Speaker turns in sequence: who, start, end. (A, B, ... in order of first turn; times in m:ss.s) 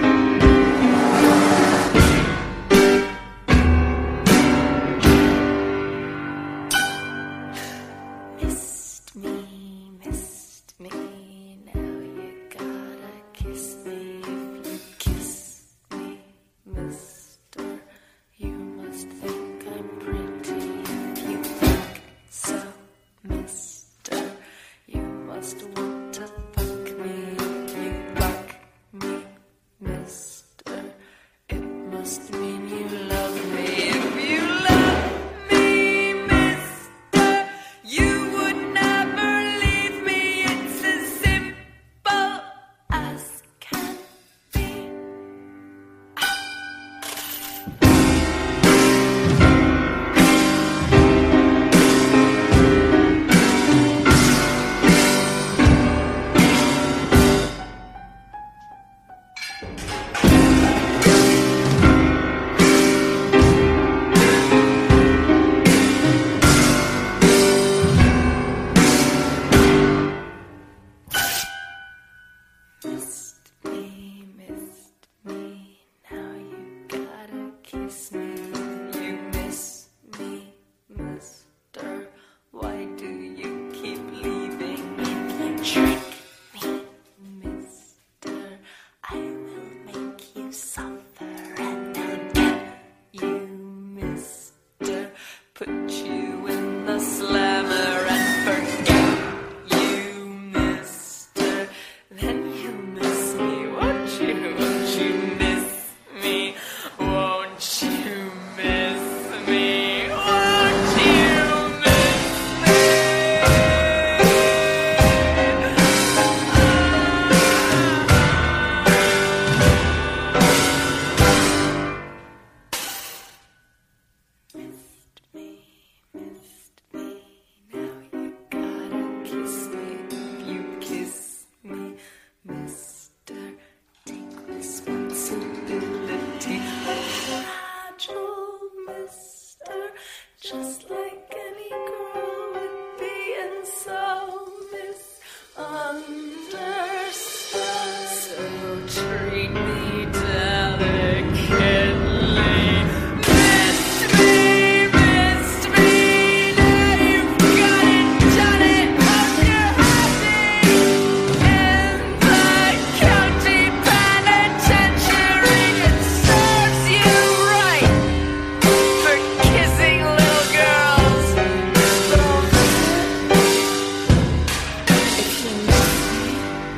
0:08.4-0:17.8 A
0:18.4-0:31.0 A
0:31.5-0:45.0 A
1:12.8-1:54.7 A
2:04.7-2:48.1 A
2:48.6-2:53.5 A
2:55.1-2:56.5 A